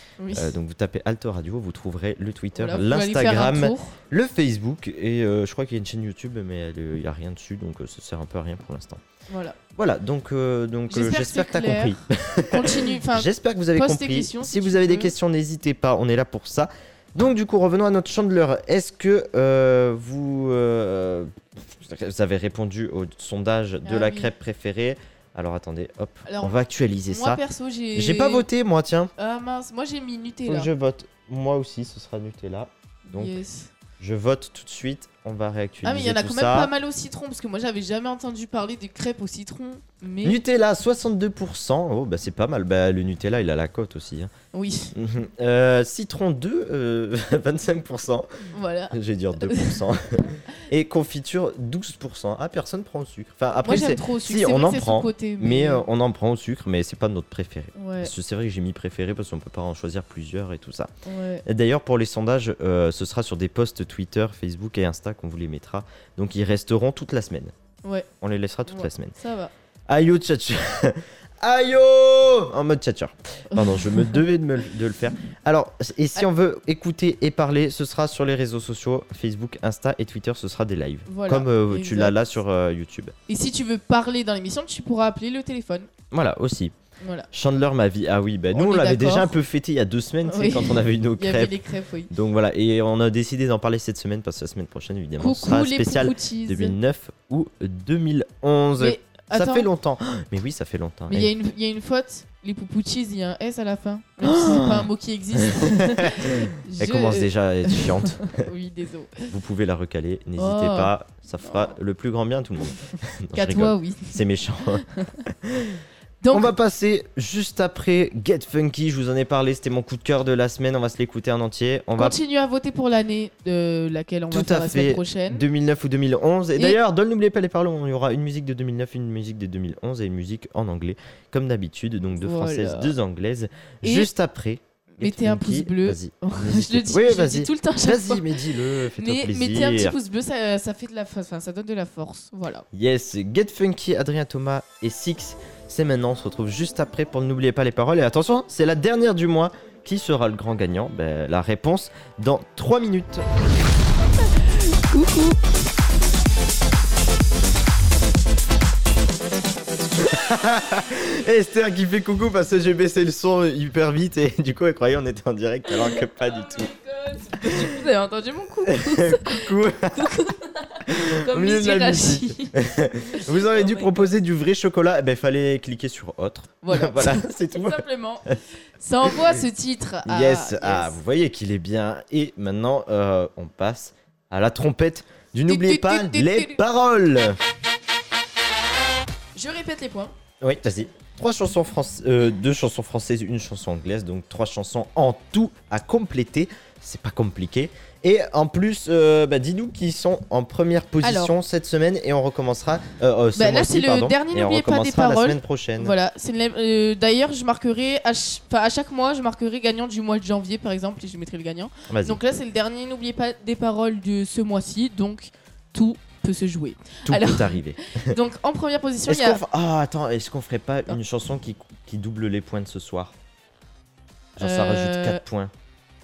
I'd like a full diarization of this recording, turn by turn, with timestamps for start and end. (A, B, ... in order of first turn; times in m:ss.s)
0:00.2-0:00.5 A
0:00.3-0:09.0 B
0:02.6-0:04.0 A
0:09.3-0:09.6 A
0:09.8-0:27.4 B
0:10.9-0:12.0 A
0:12.5-0:15.1 A
0:23.8-0:24.3 A
0:26.2-0:26.6 A
0:27.1-0:28.5 A
0:28.0-0:29.1 B
0:29.2-0:30.7 A
0:30.5-0:33.3 B
0:33.1-0:33.7 A
0:34.0-0:36.7 B
0:35.8-0:40.4 A
0:40.2-0:44.3 B
0:44.5-0:44.9 A
0:45.0-1:00.9 B
0:48.5-0:49.8 A
0:53.6-0:55.8 A
0:57.8-0:58.1 A
1:01.0-1:01.4 A
1:01.4-1:07.5 B
1:08.2-1:09.1 B
1:08.7-1:09.5 A
1:09.9-1:23.1 B
1:13.5-1:14.2 A
1:21.1-1:22.2 A
1:23.3-1:25.9 A
1:26.1-1:26.7 B
1:27.0-1:27.3 A
1:27.3-1:31.6 B
1:28.5-1:29.4 A
1:30.3-1:32.1 A
1:32.1-1:41.3 B
1:35.2-1:36.8 A
1:38.8-1:39.7 A
1:41.1-1:49.3 A
1:44.2-1:44.9 B
1:45.5-1:48.5 B
1:49.3-2:02.2 B
1:50.4-1:50.9 A
1:51.4-1:51.7 A
1:53.4-1:54.2 A
1:56.2-1:56.5 A
2:02.0-2:05.5 A
2:04.3-2:20.0 B
2:12.2-2:12.9 A
2:13.8-2:14.1 A
2:15.0-2:18.4 A
2:19.0-2:22.6 A
2:22.7-2:33.2 B
2:34.2-2:35.4 A
2:40.0-2:46.7 B
2:45.7-2:52.6 A
2:47.4-2:47.8 B
2:48.7-2:50.1 B
2:50.9-2:58.4 B
2:53.1-2:54.1 A
2:56.6-3:01.0 A
2:59.0-2:59.3 B
3:00.1-3:07.4 B
3:05.5-3:06.6 A
3:09.4-3:10.1 A
3:10.4-3:25.9 B
3:21.0-3:21.3 A
3:23.4-3:39.4 A
3:31.9-3:32.2 B
3:37.1-3:38.2 B
3:39.1-3:43.1 B
3:44.4-3:45.5 B
3:44.4-3:45.2 A